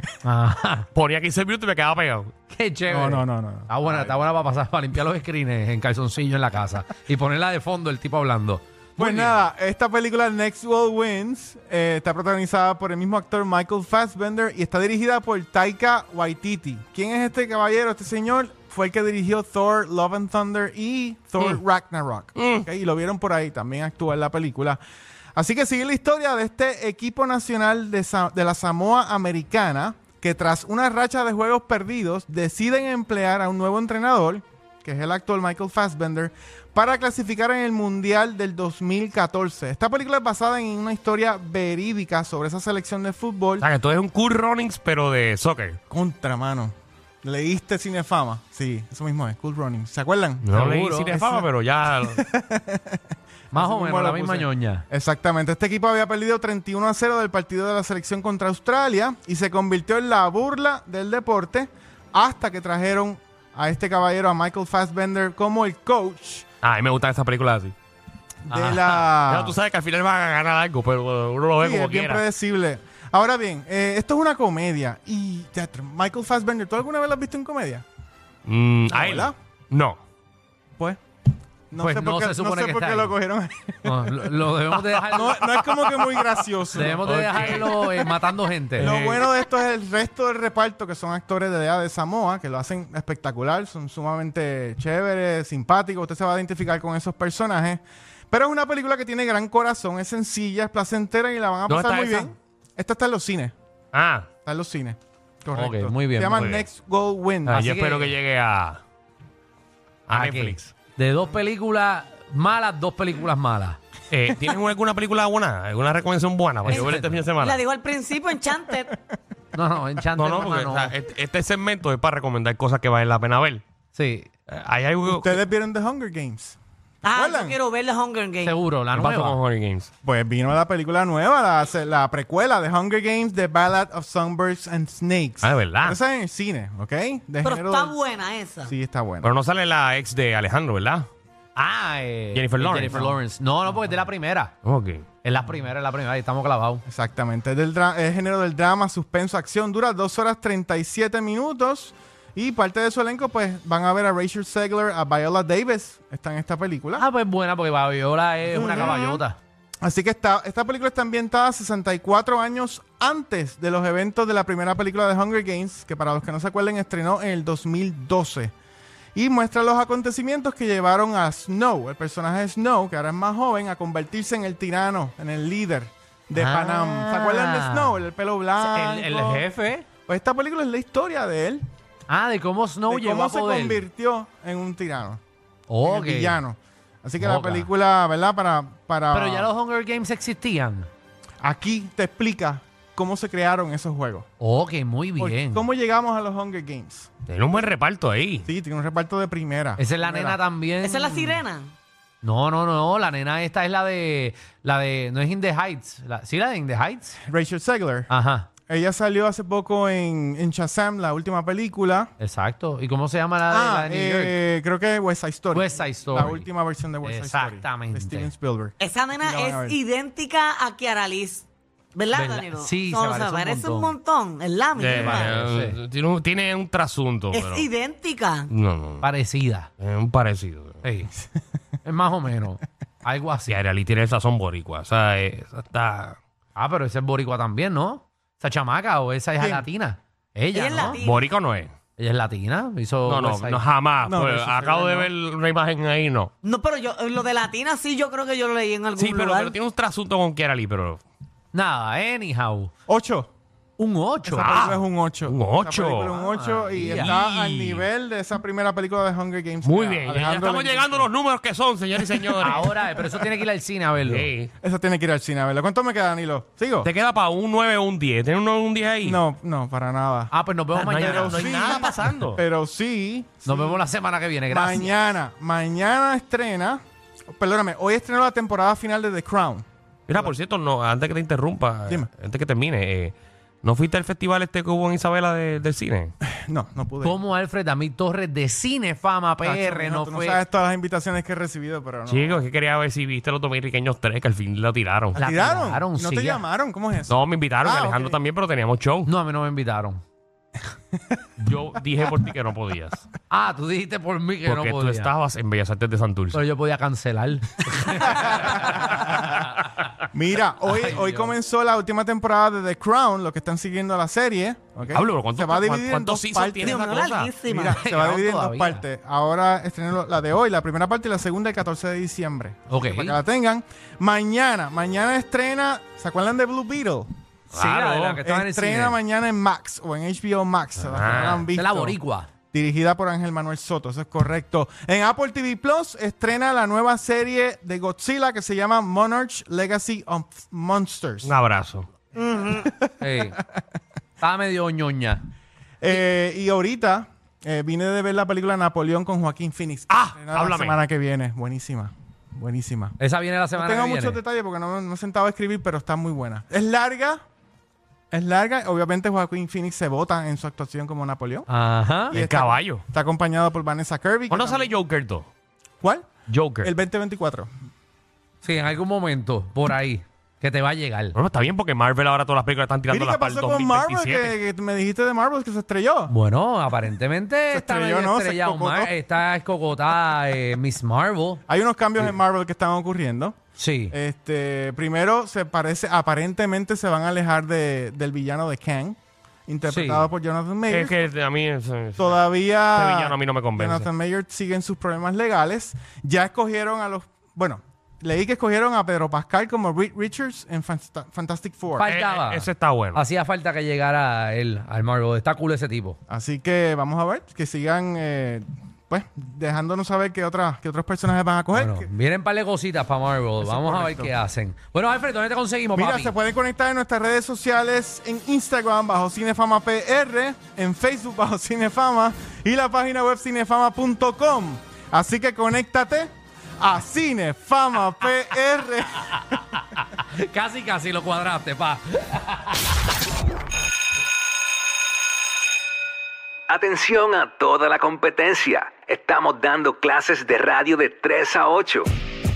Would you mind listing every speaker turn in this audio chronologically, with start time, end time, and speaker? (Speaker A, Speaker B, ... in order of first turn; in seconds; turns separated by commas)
Speaker A: 0.2-0.9, Speaker B: 0.9-2.3, Speaker A: 2.5-9.4, Speaker C: 2.9-4.2, Speaker C: 9.0-24.8, Speaker B: 22.4-22.7, Speaker C: 25.4-43.7, Speaker B: 43.6-45.8, Speaker C: 45.9-51.5, Speaker B: 50.4-52.2, Speaker A: 50.5-51.1, Speaker C: 52.0-66.5, Speaker A: 53.5-54.9, Speaker B: 66.6-67.7, Speaker C: 68.5-69.6, Speaker B: 68.5-72.2, Speaker C: 71.6-77.8, Speaker B: 78.5-80.0, Speaker C: 78.9-79.3, Speaker C: 81.7-84.4, Speaker A: 81.8-83.2, Speaker A: 83.8-85.4, Speaker B: 84.9-88.1, Speaker C: 85.1-88.0, Speaker A: 86.7-89.0, Speaker C: 88.8-103.5, Speaker B: 88.8-89.3, Speaker B: 101.7-102.3, Speaker B: 103.9-104.3, Speaker C: 104.5-107.6, Speaker A: 105.5-106.5, Speaker B: 106.4-106.7, Speaker A: 107.5-108.2, Speaker B: 107.5-108.8, Speaker B: 110.1-110.7, Speaker A: 110.1-113.8, Speaker B: 114.1-117.6, Speaker A: 116.7-117.2, Speaker D: 116.7-118.9, Speaker A: 119.5-120.9, Speaker B: 120.2-123.6, Speaker A: 123.9-124.3, Speaker B: 124.5-125.4, Speaker C: 125.1-126.6, Speaker D: 127.0-128.5, Speaker C: 127.1-127.6, Speaker A: 128.4-129.4, Speaker B: 128.9-129.9, Speaker C: 130.0-138.0, Speaker B: 135.4-136.0, Speaker D: 137.4-138.7, Speaker C: 138.6-139.3, Speaker B: 139.2-141.1, Speaker A: 141.6-144.5, Speaker B: 142.3-143.1, Speaker B: 144.6-145.0, Speaker A: 145.2-146.8, Speaker C: 146.9-157.0, Speaker A: 156.9-159.4, Speaker C: 158.5-159.2, Speaker D: 158.6-159.1, Speaker C: 159.8-168.5, Speaker C: 169.2-179.4, Speaker A: 176.3-178.0, Speaker A: 178.6-179.9, Speaker C: 180.1-181.6, Speaker A: 182.1-183.8, Speaker C: 182.9-185.2, Speaker A: 185.7-186.4, Speaker C: 185.8-189.5, Speaker A: 187.2-187.7, Speaker A: 189.1-190.9, Speaker C: 191.4-194.3, Speaker A: 194.4-195.7, Speaker C: 195.2-197.1, Speaker B: 197.3-198.5, Speaker C: 198.5-200.4, Speaker A: 199.8-201.4, Speaker D: 200.8-201.7, Speaker A: 202.2-207.2, Speaker C: 207.3-208.1, Speaker A: 208.1-208.5, Speaker C: 208.7-212.1, Speaker A: 212.2-214.4, Speaker C: 213.5-219.8, Speaker A: 215.5-216.5, Speaker A: 217.0-218.3, Speaker D: 218.8-225.3, Speaker A: 222.1-223.9, Speaker B: 224.8-227.7, Speaker A: 224.9-225.8, Speaker D: 227.3-228.5, Speaker B: 228.5-229.1, Speaker A: 229.0-229.7, Speaker B: 229.8-230.8, Speaker A: 230.8-231.1, Speaker A: 231.8-233.6, Speaker B: 233.5-236.2, Speaker A: 236.6-241.0, Speaker C: 239.4-239.7, Speaker D: 240.5-241.3, Speaker B: 240.9-241.7, Speaker A: 242.0-243.6, Speaker B: 243.1-246.3, Speaker C: 244.1-245.1, Speaker D: 246.4-249.6, Speaker B: 249.0-251.0, Speaker A: 251.5-252.7, Speaker C: 252.9-253.3, Speaker A: 253.8-254.8, Speaker C: 254.2-261.1, Speaker B: 254.4-256.2, Speaker A: 256.3-257.1, Speaker B: 256.8-257.9, Speaker B: 259.6-262.7, Speaker A: 262.4-264.3, Speaker B: 264.0-264.5, Speaker C: 264.6-266.9, Speaker B: 266.8-269.2, Speaker C: 269.0-270.3, Speaker A: 270.3-271.9, Speaker B: 270.8-272.4, Speaker C: 270.9-273.9, Speaker A: 273.5-275.0, Speaker C: 274.5-276.8, Speaker C: 277.4-280.3, Speaker B: 280.1-286.1, Speaker C: 286.2-287.2, Speaker A: 287.0-290.4, Speaker C: 289.4-292.5, Speaker B: 292.1-295.2, Speaker C: 295.1-298.2, Speaker A: 295.2-296.4, Speaker B: 297.1-299.1, Speaker A: 299.1-300.0, Speaker B: 301.4-303.1, Speaker A: 303.3-305.1, Speaker B: 304.4-306.4, Speaker A: 306.3-309.7, Speaker C: 308.3-309.2, Speaker C: 310.1-327.1, Speaker A: 310.7-311.4, Speaker B: 314.9-317.3, Speaker D: 316.6-317.8, Speaker A: 317.6-318.9, Speaker A: 322.7-323.2, Speaker A: 327.5-329.0, Speaker B: 327.5-328.2, Speaker C: 328.2-332.0, Speaker A: 330.9-332.3, Speaker B: 331.0-331.5, Speaker C: 332.5-341.4, Speaker B: 341.2-341.9, Speaker D: 342.2-342.7, Speaker C: 342.6-343.3, Speaker A: 343.0-343.4, Speaker A: 344.2-345.2, Speaker C: 345.8-353.0, Speaker B: 349.9-350.8, Speaker A: 353.0-354.2, Speaker C: 353.5-357.2, Speaker C: 358.1-361.5, Speaker A: 361.5-362.2, Speaker C: 362.1-364.7, Speaker B: 362.1-362.8, Speaker B: 364.3-365.3, Speaker C: 365.8-366.1, Speaker B: 366.3-366.7, Speaker C: 366.6-367.5, Speaker A: 368.4-371.2, Speaker B: 371.1-374.4, Speaker C: 372.9-376.1, Speaker A: 376.1-381.4, Speaker C: 377.5-378.9, Speaker C: 381.5-383.4, Speaker A: 383.6-384.0, Speaker C: 383.9-391.0, Speaker A: 389.7-390.1, Speaker B: 390.7-393.9, Speaker C: 392.0-401.9, Speaker A: 401.7-406.0, Speaker B: 401.8-403.1, Speaker C: 406.1-411.9, Speaker A: 411.5-416.1, Speaker C: 413.4-414.1, Speaker C: 415.8-429.2, Speaker A: 429.0-432.8, Speaker E: 436.5-441.9